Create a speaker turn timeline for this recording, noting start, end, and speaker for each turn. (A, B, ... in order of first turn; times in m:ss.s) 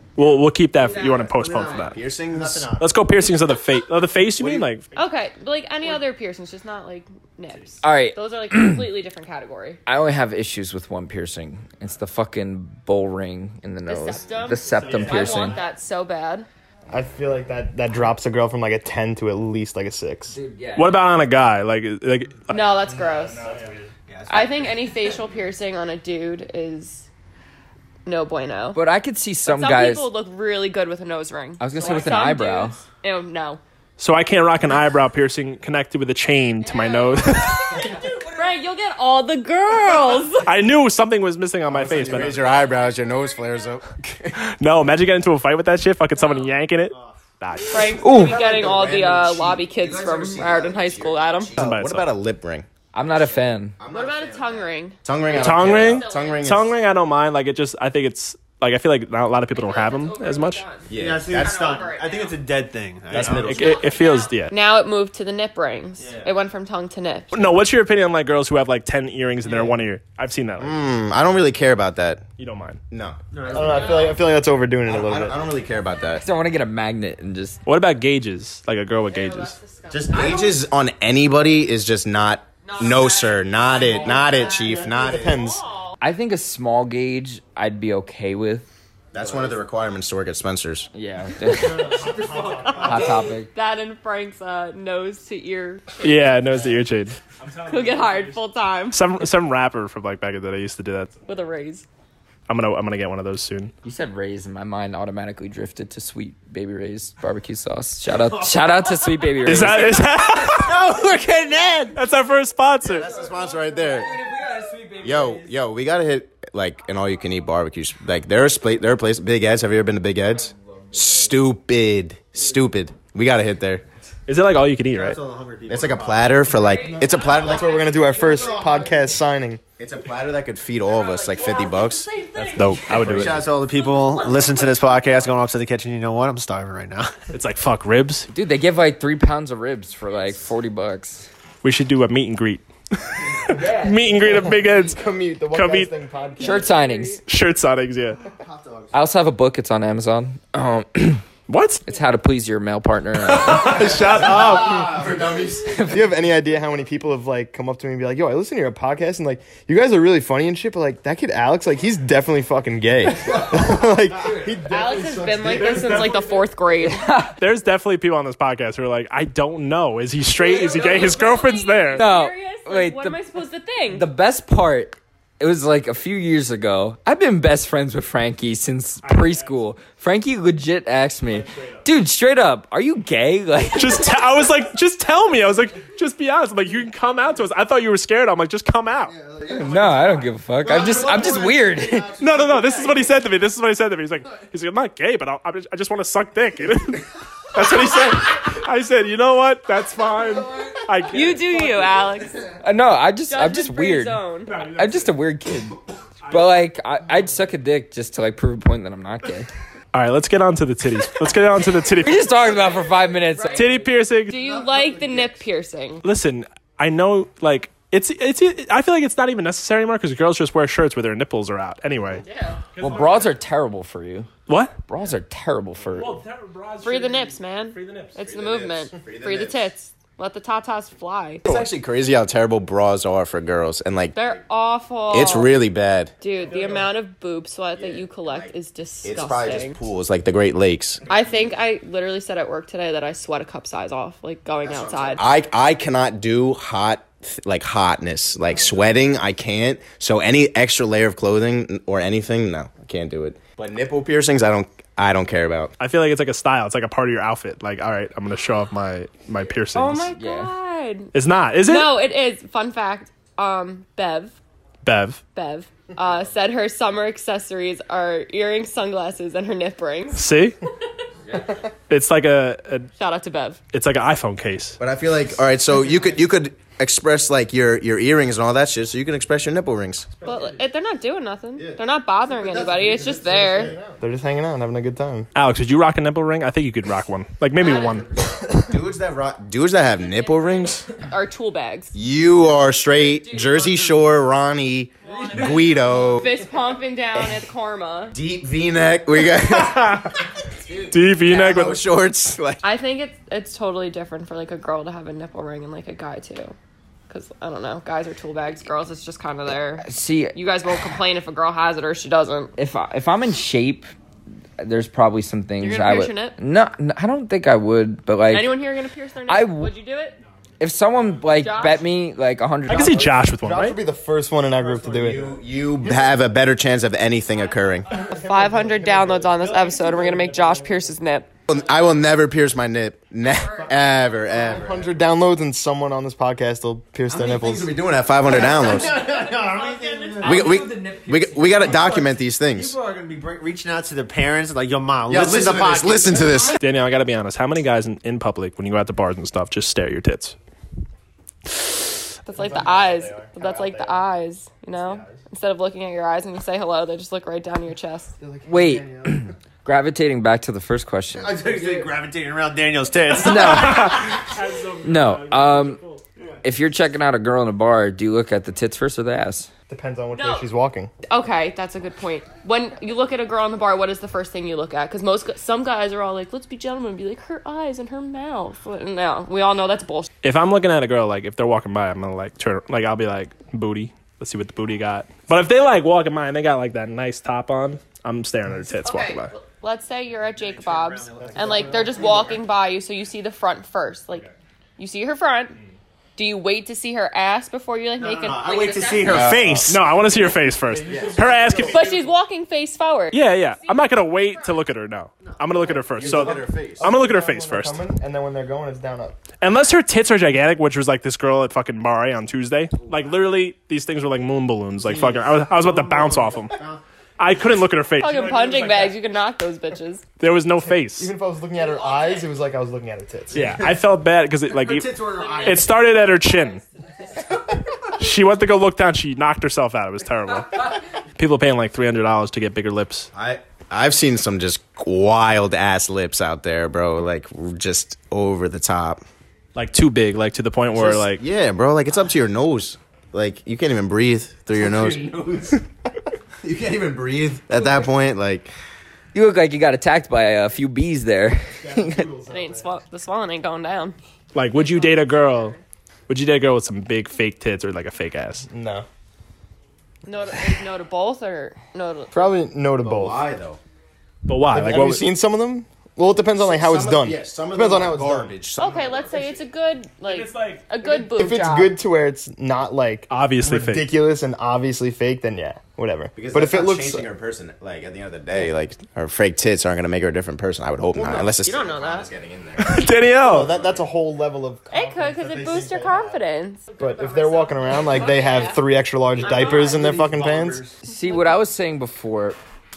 0:00.2-0:02.0 A
0:00.8-0:01.3 B
0:00.8-0:03.2 C
0:01.9-0:02.7 D
0:02.8-0:04.9 A
0:04.4-0:04.7 D
0:04.9-0:09.8 B
0:07.8-0:08.9 E
0:09.9-0:15.6 E
0:13.9-0:16.5 B
0:14.6-0:15.6 C
0:16.9-0:20.4 F
0:20.3-0:21.0 E
0:20.8-0:22.7 A
0:22.5-0:23.5 B
0:23.4-0:24.8 C
0:24.3-0:27.1 B
0:28.1-0:28.8 B
0:28.7-0:30.1 E
0:29.4-0:33.6 B
0:31.6-0:32.8 E
0:34.0-0:38.0 A
0:36.6-0:40.5 B
0:40.4-0:42.4 A
0:41.7-0:44.4 D
0:42.4-0:43.1 B
0:44.4-0:48.0 A
0:46.2-0:46.4 B
0:46.9-0:47.2 C
0:47.7-0:51.5 B
0:48.0-0:48.4 E
0:48.1-0:56.8 D
0:51.6-0:52.1 A
0:52.9-0:53.8 E
0:53.9-0:56.5 B
0:55.4-1:00.6 A
0:59.5-1:02.4 B
1:00.9-1:01.6 D
1:00.9-1:03.9 C
1:03.1-1:04.5 A
1:03.5-1:07.6 B
1:06.0-1:06.3 C
1:07.3-1:10.8 A
1:09.5-1:09.8 C
1:10.6-1:12.2 D
1:12.4-1:12.8 A
1:12.9-1:14.0 D
1:13.3-1:14.2 C
1:13.5-1:15.4 F
1:13.6-1:14.1 B
1:14.8-1:16.2 D
1:16.2-1:17.6 E
1:17.7-1:19.6 A
1:19.1-1:20.6 B
1:19.9-1:25.4 D
1:22.6-1:26.0 B
1:23.9-1:24.9 C
1:24.6-1:25.6 F
1:26.0-1:28.7 E
1:29.1-1:30.9 D
1:29.2-1:29.6 C
1:30.9-1:32.1 E
1:31.6-1:33.3 C
1:31.8-1:36.1 B
1:32.7-1:33.5 E
1:36.0-1:41.2 A
1:37.7-1:39.0 B
1:41.3-1:41.9 B
1:42.5-1:43.7 A
1:43.8-1:50.0 E
1:48.2-1:52.0 C
1:49.4-1:50.8 A
1:52.0-1:53.1 A
1:52.8-1:54.1 D
1:53.0-1:55.3 C
1:53.1-1:55.4 E
1:55.0-2:03.8 D
2:04.3-2:05.2 A
2:04.9-2:06.5 C
2:05.7-2:07.8 D
2:06.4-2:09.2 B
2:07.1-2:09.6 F
2:08.2-2:09.0 C
2:09.8-2:12.1 D
2:10.8-2:15.4 B
2:12.4-2:13.5 A
2:13.0-2:17.3 C
2:13.1-2:13.4 D
2:17.3-2:18.3 A
2:18.3-2:21.3 E
2:21.6-2:25.0 A
2:23.5-2:24.4 E
2:24.4-2:26.7 F
2:25.5-2:25.9 A
2:26.2-2:27.2 B
2:26.4-2:27.2 E
2:27.2-2:28.2 A
2:28.3-2:29.1 C
2:28.9-2:31.3 E
2:31.5-2:31.9 A
2:31.8-2:33.9 E
2:33.2-2:35.0 A
2:33.8-2:35.9 D
2:35.7-2:36.0 E
2:35.8-2:46.0 F
2:44.7-2:47.1 B
2:45.6-2:46.2 A
2:46.9-2:47.4 E
2:47.4-2:52.1 A
2:50.3-2:54.1 B
2:52.0-2:53.2 E
2:53.9-3:04.1 E
2:59.0-2:59.6 A
3:01.3-3:01.8 A
3:03.8-3:09.2 A
3:09.1-3:13.2 C
3:09.4-3:12.2 E
3:12.2-3:22.0 A
3:21.1-3:22.6 B
3:22.6-3:25.8 E
3:23.3-3:24.7 B
3:24.5-3:25.1 A
3:26.2-3:26.5 A
3:26.3-3:29.5 E
3:29.9-3:32.4 A
3:32.0-3:33.7 E
3:32.3-3:36.0 B
3:33.5-3:34.4 A
3:34.3-3:35.4 C
3:36.0-3:43.4 A
3:42.2-3:42.7 B
3:42.8-3:44.3 E
3:44.5-3:44.8 A
3:44.9-3:46.2 E
3:45.9-3:48.2 A
3:46.8-3:51.4 B
3:48.2-3:49.7 D
3:51.4-3:54.2 D
3:54.1-3:55.6 B
3:55.1-3:56.2 D
3:56.2-3:59.8 B
3:56.5-3:56.9 A
3:57.8-4:01.1 D
4:01.1-4:05.3 B
4:04.6-4:15.7 D
4:15.8-4:20.1 A
4:19.7-4:21.1 B
4:20.1-4:20.5 E
4:21.1-4:22.0 A
4:21.7-4:24.4 B
4:24.8-4:25.2 A
4:25.3-4:30.2 B
4:30.1-4:30.6 A
4:31.9-4:32.9 A
4:33.0-4:33.6 B
4:33.7-4:34.8 A
4:34.8-4:40.1 D
4:40.2-4:40.5 A
4:40.2-4:43.8 B
4:42.3-4:44.0 C
4:43.2-4:45.3 F
4:45.4-4:48.1 A
4:47.6-4:48.1 B
4:48.6-4:50.9 D
4:50.2-4:51.9 B
4:51.9-4:56.3 D
4:53.1-4:53.7 B
4:55.0-4:58.2 B
4:55.4-4:55.7 C
4:58.1-5:00.2 D
4:59.5-5:00.2 A
5:00.7-5:01.4 B
5:00.8-5:02.7 D
5:00.9-5:01.8 A
5:02.6-5:06.6 B
5:07.1-5:12.6 B
5:09.8-5:10.4 E
5:12.6-5:13.9 E
5:14.6-5:18.7 E
5:15.6-5:16.4 B
5:18.3-5:20.2 B
5:19.3-5:19.8 E
5:20.6-5:23.1 E
5:21.3-5:21.9 B
5:22.7-5:23.8 A
5:22.7-5:25.4 F
5:24.5-5:26.1 C
5:25.0-5:27.9 D
5:27.9-5:30.7 F
5:28.0-5:31.3 B
5:31.5-5:35.0 D
5:33.3-5:34.5 B
5:34.3-5:37.7 F
5:37.1-5:39.0 D
5:38.2-5:46.6 C
5:39.1-5:40.4 B
5:40.2-5:42.8 D
5:40.3-5:41.8 E
5:45.1-5:46.6 D
5:46.5-5:50.4 A
5:52.3-5:54.0 F
5:52.3-5:58.1 B
5:58.2-5:59.3 F
5:58.5-6:01.5 E
6:01.1-6:04.0 C
6:03.2-6:05.8 E
6:03.3-6:06.0 A
6:06.4-6:09.5 E
6:09.7-6:10.9 F
6:10.1-6:10.5 B
6:11.1-6:20.1 B
6:20.2-6:29.3 A
6:28.8-6:35.6 B
6:30.2-6:32.4 C
6:31.2-6:32.2 F
6:36.2-6:39.3 B
6:38.0-6:40.1 C
6:39.0-6:39.8 D
6:39.7-6:41.8 A
6:40.6-6:42.1 F
6:40.9-6:41.2 D
6:40.9-6:41.2 C
6:41.6-6:44.6 B
6:43.1-6:47.8 A
6:45.2-6:45.8 C
6:45.9-6:46.9 D
6:46.0-6:49.2 F
6:49.4-6:56.6 A
6:54.8-6:56.8 C
6:57.2-6:59.0 A
6:58.0-7:00.0 B
7:00.2-7:01.1 A
7:01.0-7:03.6 F
7:01.6-7:02.3 B
7:03.3-7:06.6 A
7:04.5-7:05.8 C
7:05.2-7:06.7 B
7:07.9-7:13.1 A
7:13.1-7:19.0 D
7:19.6-7:21.2 A
7:20.7-7:25.6 D
7:24.8-7:25.1 C
7:26.4-7:28.5 D
7:27.6-7:27.8 E
7:29.1-7:32.1 E
7:31.6-7:32.7 F
7:32.3-7:34.0 B
7:34.3-7:35.6 A
7:34.5-7:35.6 B
7:36.1-7:38.5 A
7:38.5-7:38.9 F
7:40.0-7:42.4 B
7:42.1-7:43.2 F
7:42.8-7:43.6 D
7:44.3-7:45.1 A
7:44.5-7:48.4 F
7:46.4-7:49.4 D
7:48.6-7:51.8 B
7:50.0-7:50.7 A
7:51.1-7:57.1 F
7:53.1-7:53.9 A
7:56.2-8:03.8 D
8:01.0-8:01.2 F
8:01.4-8:02.1 B
8:02.6-8:03.5 A
8:03.2-8:06.2 F
8:04.7-8:09.9 B
8:06.8-8:10.6 F
8:09.2-8:10.8 C
8:10.8-8:12.4 E
8:10.9-8:11.4 B